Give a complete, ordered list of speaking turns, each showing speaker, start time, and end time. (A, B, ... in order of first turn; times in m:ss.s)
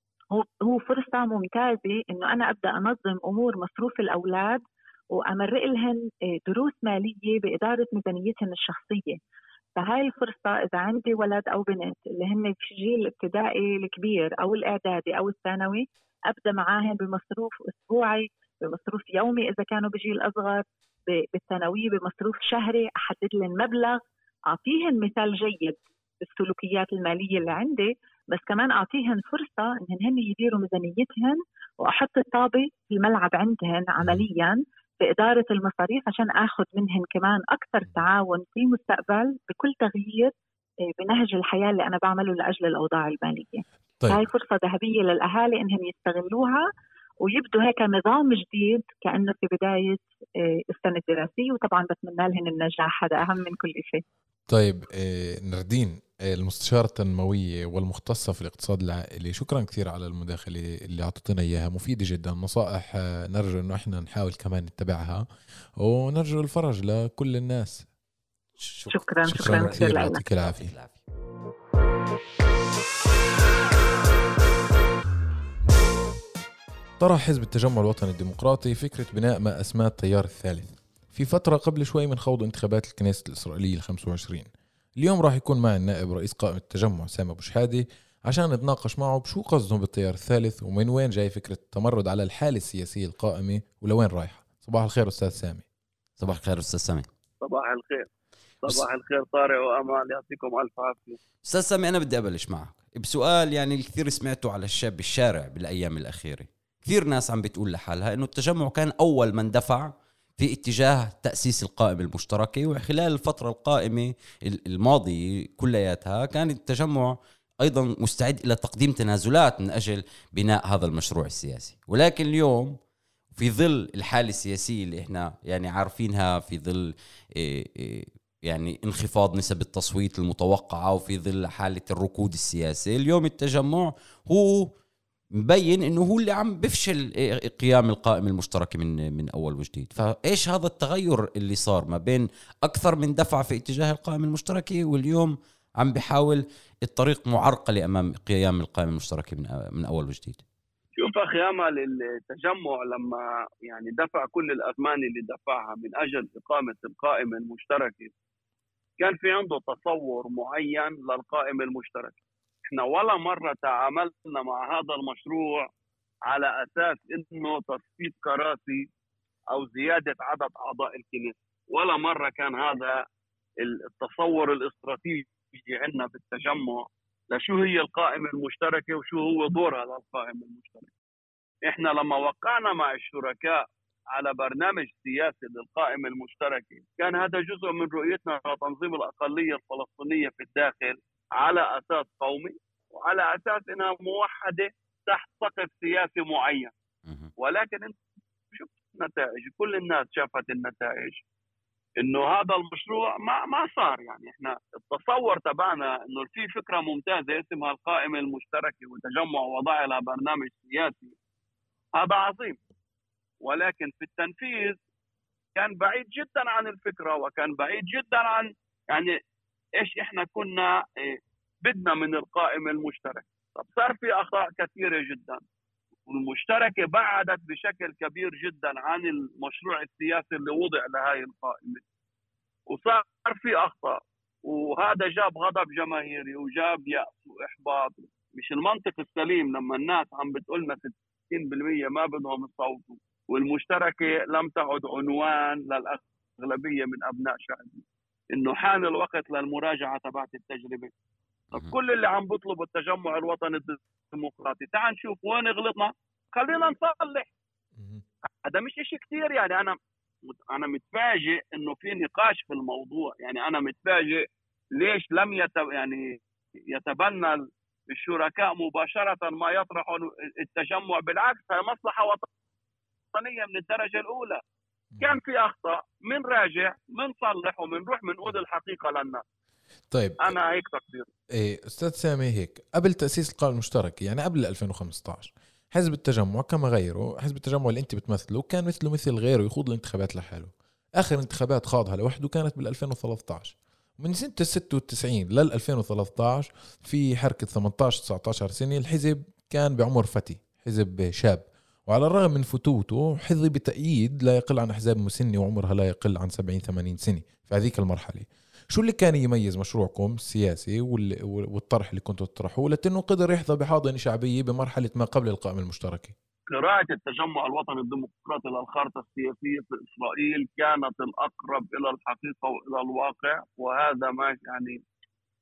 0:00.3-0:04.6 A
0:05.1-0:09.2 A
0:09.8-0:40.3 A
0:41.0-0:46.7 A
0:47.2-0:54.0 A
0:54.5-1:05.2 B
1:05.8-1:07.9 B
1:08.6-1:11.0 C
1:08.9-1:10.2 A
1:09.3-1:10.7 B
1:17.0-1:35.6 B
1:36.2-1:37.1 C
1:37.4-1:38.1 D
1:38.6-1:41.2 D
1:41.4-2:02.8 C
2:03.4-2:14.7 C
2:15.4-2:30.4 C
2:31.0-2:38.1 D
2:39.0-2:45.7 D
2:46.3-2:48.9 D
2:49.5-2:53.0 D
2:53.6-3:00.9 D
3:01.7-3:16.7 D
3:17.4-3:18.0 D
3:18.5-3:21.2 D
3:22.0-3:31.2 D
3:32.0-3:32.6 D
3:33.4-3:34.8 D
3:35.5-3:39.1 D
3:39.8-3:45.4 D
3:46.1-3:51.8 D
3:52.7-4:10.9 D
4:11.5-4:17.3 D
4:17.7-4:18.0 B
4:18.4-4:26.2 D
4:26.7-4:32.3 D
4:33.1-4:34.4 D
4:34.9-4:35.2 B
4:35.0-4:39.2 D
4:39.9-4:40.4 B
4:40.2-4:41.1 D
4:41.3-5:16.1 B
5:16.5-5:24.8 D